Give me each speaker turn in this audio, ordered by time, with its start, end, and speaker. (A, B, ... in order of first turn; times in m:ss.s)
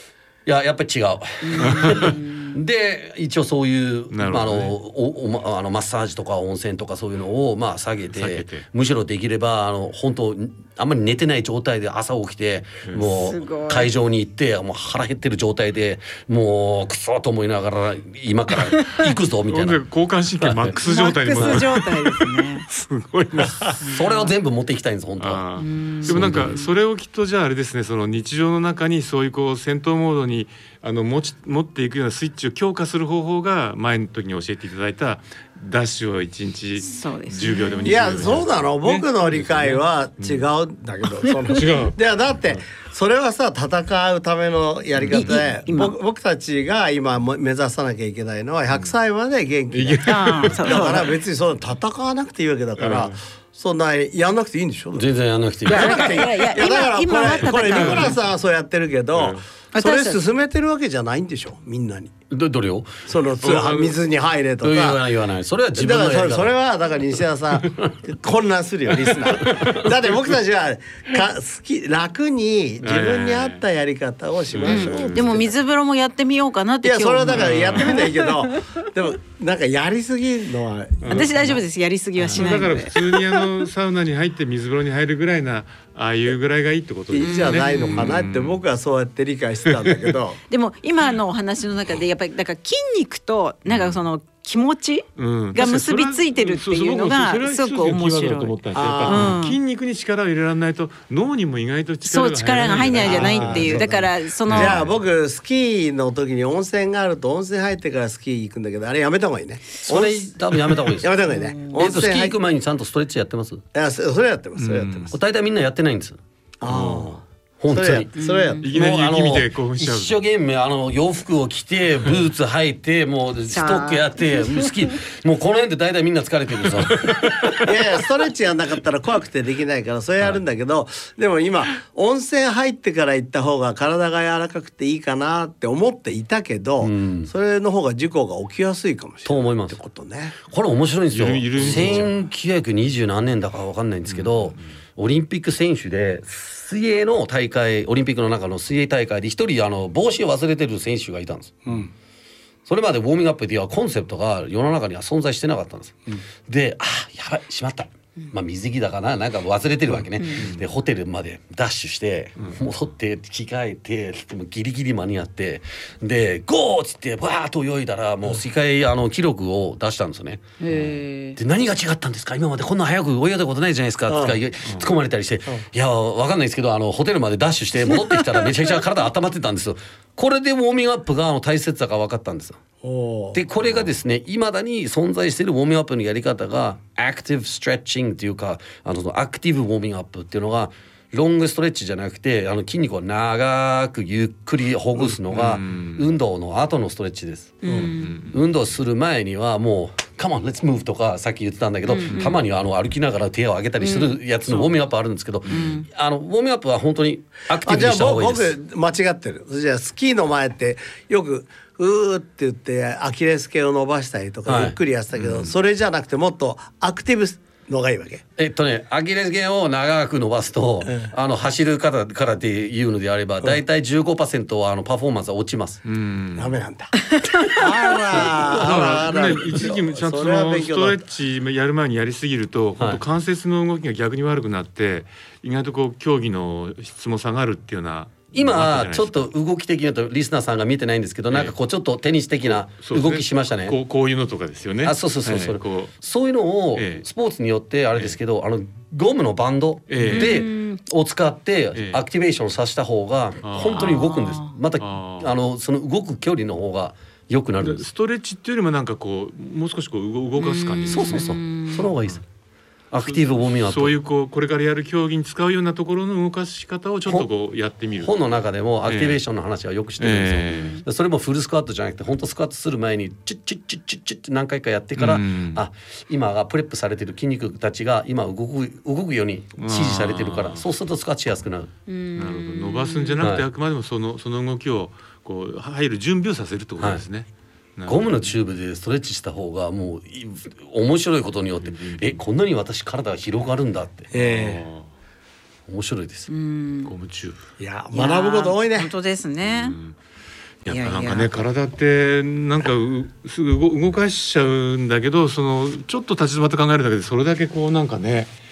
0:00.4-0:19.8 A
0:01.4-0:02.6 B
0:01.6-0:02.2 C
0:04.1-0:04.7 C
0:08.1-0:08.6 C
0:12.9-0:13.1 C
0:13.1-0:13.9 B
0:19.5-0:23.8 C
0:20.4-0:20.8 A
0:20.8-0:22.6 B
0:23.7-0:25.4 A
0:23.8-0:24.3 B
0:25.2-0:40.5 C
0:25.6-0:26.6 B
0:26.0-0:26.5 A
0:36.8-0:38.3 B
0:37.8-0:55.1 D
0:41.5-0:42.0 C
0:44.9-0:45.4 C
0:45.1-0:45.9 B
0:49.7-0:51.1 C
0:50.0-0:51.0 B
0:52.8-0:53.2 C
0:54.9-0:56.3 A
0:55.6-1:02.1 D
0:55.7-0:58.2 B
0:57.2-0:58.2 C
0:59.1-0:59.4 C
0:59.7-1:00.2 B
1:02.3-1:03.1 A
1:03.1-1:05.0 D
1:03.4-1:04.0 C
1:04.6-1:06.5 A
1:05.7-1:15.5 D
1:07.1-1:07.9 A
1:09.4-1:09.9 A
1:12.8-1:13.6 C
1:14.5-1:15.3 C
1:14.6-1:18.8 B
1:16.8-1:21.6 D
1:17.3-1:18.1 C
1:21.0-1:21.6 C
1:21.0-1:23.4 B
1:22.2-1:28.6 C
1:27.1-1:30.4 D
1:27.2-1:28.2 B
1:29.8-1:30.1 C
1:30.5-1:39.6 B
1:33.6-1:34.0 C
1:35.2-1:45.0 C
1:38.7-1:39.4 D
1:42.0-1:44.8 B
1:42.8-1:50.3 D
1:49.8-1:53.6 A
1:50.8-1:52.3 D
1:51.3-1:51.8 B
1:53.7-1:55.1 D
1:54.6-1:55.1 C
1:55.1-1:56.2 A
1:56.6-1:58.7 D
1:56.6-1:57.1 C
1:57.6-1:58.1 A
1:58.1-1:58.6 B
1:58.6-2:00.2 C
1:58.6-2:07.7 A
2:03.5-2:04.7 B
2:07.6-2:20.4 D
2:16.8-2:17.3 A
2:19.2-2:19.8 A
2:20.4-2:31.5 A
2:21.1-2:22.1 C
2:21.6-2:22.0 D
2:24.1-2:24.6 C
2:31.6-2:31.9 D
2:32.6-2:50.8 A
2:40.3-2:40.6 C
2:50.6-2:51.4 B
2:51.4-3:02.6 A
2:54.1-2:54.4 D
3:02.8-3:03.4 D
3:03.3-3:17.6 A
3:15.1-3:16.1 C
3:17.6-3:18.2 B
3:17.8-3:18.4 C
3:18.3-3:28.6 A
3:21.8-3:22.4 B
3:23.8-3:24.7 B
3:25.5-3:25.8 B
3:27.6-3:38.2 D
3:34.4-3:34.8 A
3:35.1-3:35.5 C
3:38.4-3:45.8 A
3:40.8-3:41.1 D
3:45.8-3:46.6 C
3:46.4-3:46.9 D
3:47.0-3:47.6 B
3:47.5-3:51.0 D
3:48.1-3:49.3 A
3:48.2-3:59.3 C
3:58.3-4:03.7 A
4:02.7-4:05.9 C
4:04.8-4:17.8 A
4:06.8-4:07.0 C
4:09.9-4:10.4 C
4:10.1-4:10.8 B
4:11.7-4:12.0 C
4:13.4-4:14.0 C
4:13.7-4:14.5 B
4:14.8-4:15.3 C
4:17.6-4:21.3 C
4:20.4-4:21.9 B
4:20.9-4:22.2 A
4:22.9-4:23.9 A
4:23.0-4:28.1 C
4:28.0-4:41.7 A
4:28.8-4:29.2 C
4:30.0-4:30.8 C
4:30.5-4:30.8 B
4:35.0-4:35.6 C
4:39.6-4:40.6 C
4:41.9-4:43.2 B
4:42.2-4:48.3 C
4:43.2-4:43.4 A
4:47.9-4:54.0 A
4:51.6-4:52.2 C
4:54.1-4:54.6 D
4:54.1-4:54.9 C
4:55.7-4:56.3 A
4:56.3-4:56.9 B
4:56.8-4:57.4 C
4:57.6-4:58.9 D
4:57.9-4:59.8 B
4:59.4-5:00.0 C
5:00.6-5:08.3 C
5:00.7-5:01.3 B